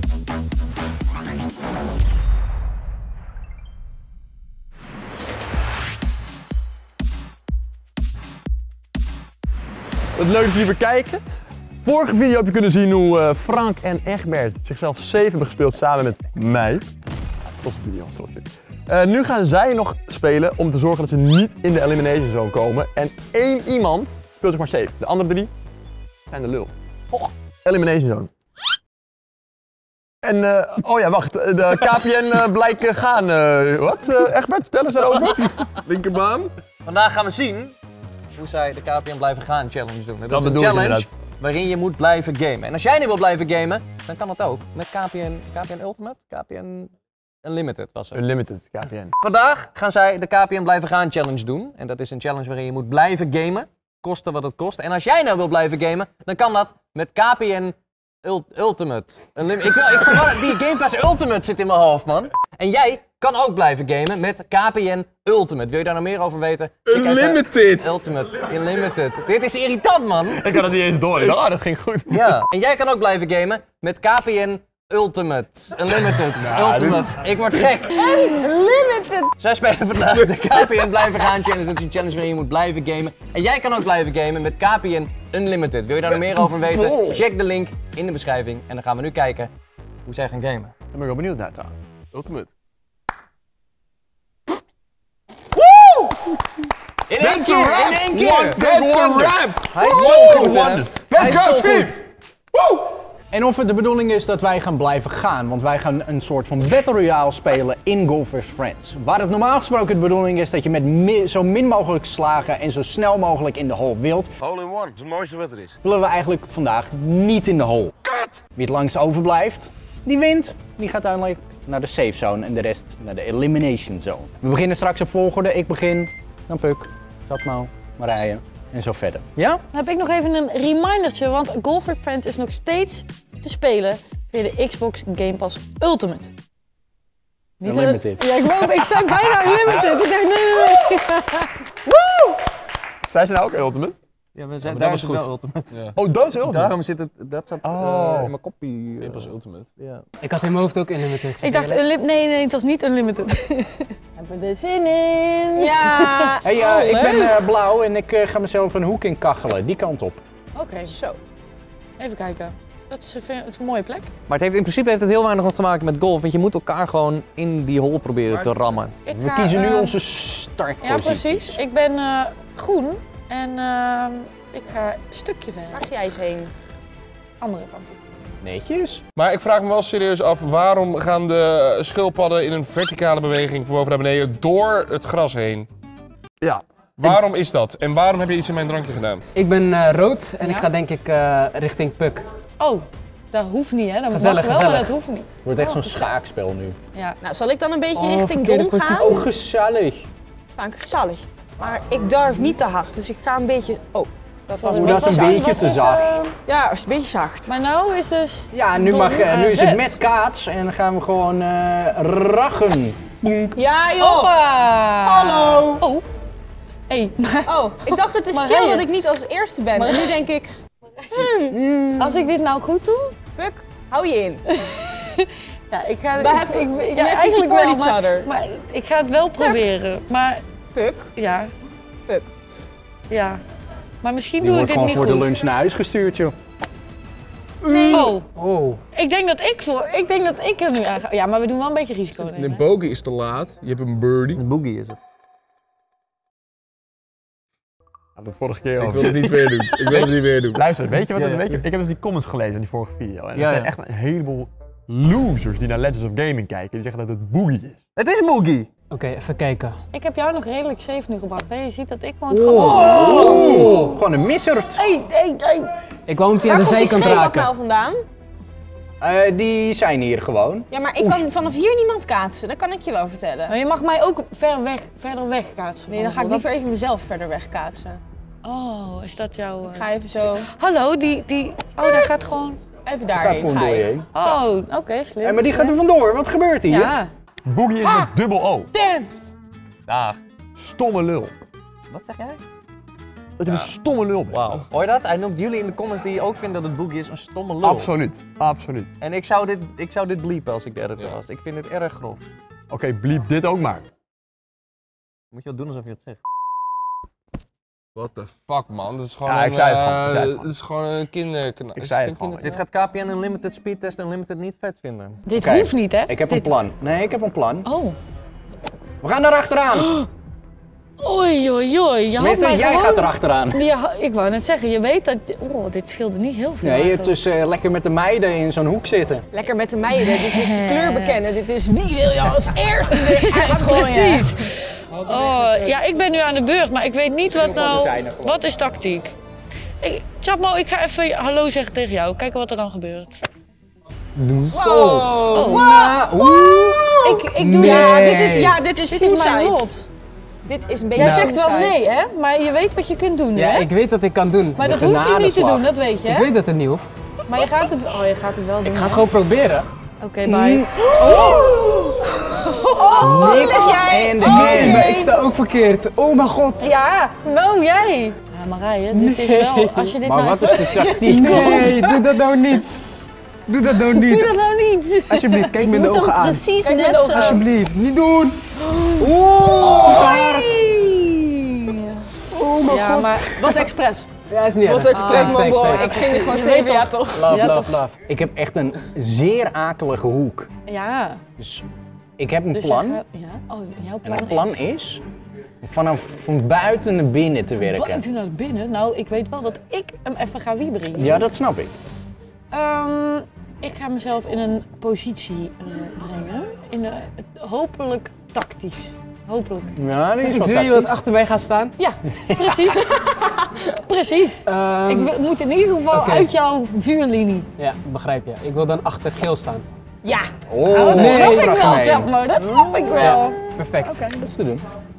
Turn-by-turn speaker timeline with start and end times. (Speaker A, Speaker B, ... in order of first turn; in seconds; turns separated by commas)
Speaker A: 10.1-11.2, Speaker A: 11.8-16.9, Speaker A: 17.5-25.5, Speaker A: 26.3-28.3, Speaker A: 30.2-36.4, Speaker B: 35.9-36.5, Speaker C: 36.8-37.7, Speaker C: 38.4-46.9, Speaker A: 40.3-41.1, Speaker C: 47.4-48.2, Speaker A: 48.1-49.1, Speaker C: 49.2-70.4, Speaker B: 66.9-68.0, Speaker A: 70.3-72.4, Speaker C: 72.1-77.9, Speaker A: 76.3-77.5, Speaker D: 77.9-79.3, Speaker C: 79.4-89.5, Speaker A: 86.7-87.1, Speaker C: 90.0-90.7, Speaker A: 90.9-91.7, Speaker B: 92.1-92.5, Speaker C: 97.1-98.6, Speaker A: 97.2-102.0, Speaker B: 97.9-100.5, Speaker C: 99.7-101.9, Speaker B: 101.1-101.8, Speaker E: 103.3-114.3, Speaker A: 114.4-115.7, Speaker E: 115.8-118.0, Speaker E: 118.5-129.6, Speaker F: 129.7-136.3, Speaker F: 137.6-141.6, Speaker E: 137.6-138.3, Speaker A: 143.1-144.0, Speaker C: 144.3-145.8, Speaker A: 144.7-145.2, Speaker A: 145.9-146.7, Speaker C: 146.4-150.0, Speaker A: 147.6-148.3, Speaker B: 149.0-149.7, Speaker G: 150.2-151.8, Speaker F: 151.4-156.4, Speaker D: 155.6-157.4, Speaker E: 156.4-160.2, Speaker F: 160.5-160.9, Speaker D: 160.9-161.2, Speaker F: 162.0-164.1, Speaker C: 164.3-169.0, Speaker F: 169.0-170.0, Speaker E: 169.1-171.6, Speaker F: 170.8-175.8, Speaker D: 175.7-176.5, Speaker F: 177.4-178.0, Speaker E: 178.4-179.0, Speaker B: 179.2-185.7, Speaker A: 186.4-187.2, Speaker B: 187.0-189.2, Speaker G: 189.3-192.3, Speaker F: 190.4-190.7, Speaker F: 192.6-195.9, Speaker G: 194.1-194.9, Speaker E: 195.4-196.8, Speaker D: 197.2-199.2, Speaker G: 197.9-199.3, Speaker E: 199.0-200.1, Speaker D: 200.6-205.8, Speaker F: 204.5-206.3, Speaker E: 204.7-206.3, Speaker D: 206.4-207.5, Speaker F: 207.4-209.9, Speaker E: 208.5-213.6, Speaker D: 213.6-214.3, Speaker F: 214.0-216.0, Speaker D: 215.0-215.8, Speaker F: 216.9-217.6, Speaker D: 217.4-220.5, Speaker F: 218.3-218.9, Speaker F: 219.7-220.2, Speaker D: 221.1-221.6, Speaker E: 221.5-222.3, Speaker F: 222.0-223.1, Speaker D: 223.4-224.4, Speaker F: 224.6-230.4, Speaker D: 226.2-228.3, Speaker D: 230.7-231.1, Speaker F: 231.2-231.5, Speaker F: 233.1-233.4, Speaker F: 234.0-235.4, Speaker E: 234.4-236.3, Speaker G: 237.7-238.8, Speaker D: 237.7-238.2, Speaker F: 237.9-238.3, Speaker F: 238.9-242.6, Speaker B: 242.2-244.4, Speaker C: 244.4-245.0, Speaker A: 248.2-257.8, Speaker B: 248.8-250.7, Speaker C: 251.1-251.6, Speaker C: 253.3-253.7, Speaker C: 257.9-258.7, Speaker G: 258.9-259.8, Speaker F: 259.9-263.9, Speaker E: 262.3-264.8, Speaker D: 262.8-263.5, Speaker F: 264.8-265.7, Speaker G: 266.1-267.5, Speaker D: 266.4-268.0, Speaker E: 269.0-271.2, Speaker D: 270.7-273.5, Speaker F: 273.5-276.4, Speaker D: 275.9-278.0, Speaker F: 278.4-279.9, Speaker D: 279.6-280.5, Speaker F: 280.4-282.6, Speaker D: 282.9-283.9, Speaker E: 283.1-284.3, Speaker F: 284.1-285.8, Speaker E: 285.2-286.9, Speaker F: 286.7-287.1, Speaker A: 287.4-288.7, Speaker F: 288.7-289.3, Speaker C: 289.9-290.2, Speaker A: 290.6-291.3, Speaker C: 291.9-292.4, Speaker A: 293.4-294.6, Speaker B: 293.4-293.7, Speaker C: 294.3-297.9, Speaker A: 297.6-298.9, Speaker C: 299.0-302.2, Speaker A: 302.7-303.9, Speaker C: 305.3-306.2, Speaker B: 307.9-312.5, Speaker A: 309.2-310.5, Speaker A: 311.8-312.6, Speaker C: 312.4-315.2, Speaker F: 315.2-316.5, Speaker E: 315.4-317.7, Speaker F: 317.6-317.9, Speaker E: 319.0-320.0, Speaker F: 319.7-320.1, Speaker F: 321.0-327.1, Speaker E: 322.2-323.6, Speaker E: 326.6-329.2, Speaker D: 329.3-334.4, Speaker F: 330.0-331.2, Speaker F: 332.9-334.4, Speaker F: 335.0-339.1, Speaker E: 335.0-335.7, Speaker E: 337.3-338.4, Speaker F: 339.8-343.1, Speaker E: 344.1-346.8, Speaker D: 344.5-349.7, Speaker F: 345.3-345.7, Speaker F: 346.9-348.0, Speaker G: 347.4-348.6, Speaker F: 348.8-349.9, Speaker D: 350.4-351.9, Speaker F: 350.9-353.7, Speaker G: 351.0-351.3, Speaker G: 353.3-354.8, Speaker F: 354.6-356.3, Speaker E: 354.6-355.7, Speaker G: 356.0-356.9, Speaker F: 357.3-359.1, Speaker G: 358.6-359.7, Speaker F: 360.0-362.4, Speaker E: 360.2-361.5, Speaker D: 361.1-361.8, Speaker D: 362.5-365.1, Speaker E: 363.0-365.0, Speaker F: 363.1-363.7, Speaker G: 364.2-366.7, Speaker F: 366.6-371.4, Speaker G: 368.9-372.8, Speaker E: 370.0-371.8, Speaker D: 370.7-371.9, Speaker G: 373.5-374.4, Speaker F: 373.8-375.3, Speaker G: 375.1-376.4, Speaker D: 375.2-377.4, Speaker F: 376.6-377.4, Speaker G: 377.1-378.4, Speaker F: 378.7-379.0, Speaker E: 379.2-381.4, Speaker G: 379.4-380.6, Speaker D: 379.5-380.6, Speaker F: 379.9-380.3, Speaker D: 382.3-384.1, Speaker F: 382.6-383.2, Speaker G: 382.7-383.5, Speaker G: 384.3-386.1, Speaker D: 384.6-387.4, Speaker F: 384.9-387.7, Speaker E: 387.2-390.5, Speaker G: 387.2-387.9, Speaker F: 390.7-391.2, Speaker E: 391.4-391.7, Speaker E: 392.2-393.0, Speaker F: 392.5-394.6, Speaker E: 394.0-395.0, Speaker E: 395.6-398.0, Speaker F: 397.6-401.3, Speaker E: 401.0-401.7, Speaker F: 402.5-409.7, Speaker E: 409.7-411.0, Speaker G: 410.2-411.7, Speaker F: 411.8-413.0, Speaker E: 412.2-412.6, Speaker D: 413.0-413.5, Speaker F: 413.7-417.5, Speaker G: 414.4-415.1, Speaker G: 415.9-416.3, Speaker G: 417.6-419.6, Speaker D: 420.0-420.3, Speaker E: 420.5-424.6, Speaker F: 420.6-423.5, Speaker G: 420.9-421.8, Speaker G: 422.9-424.1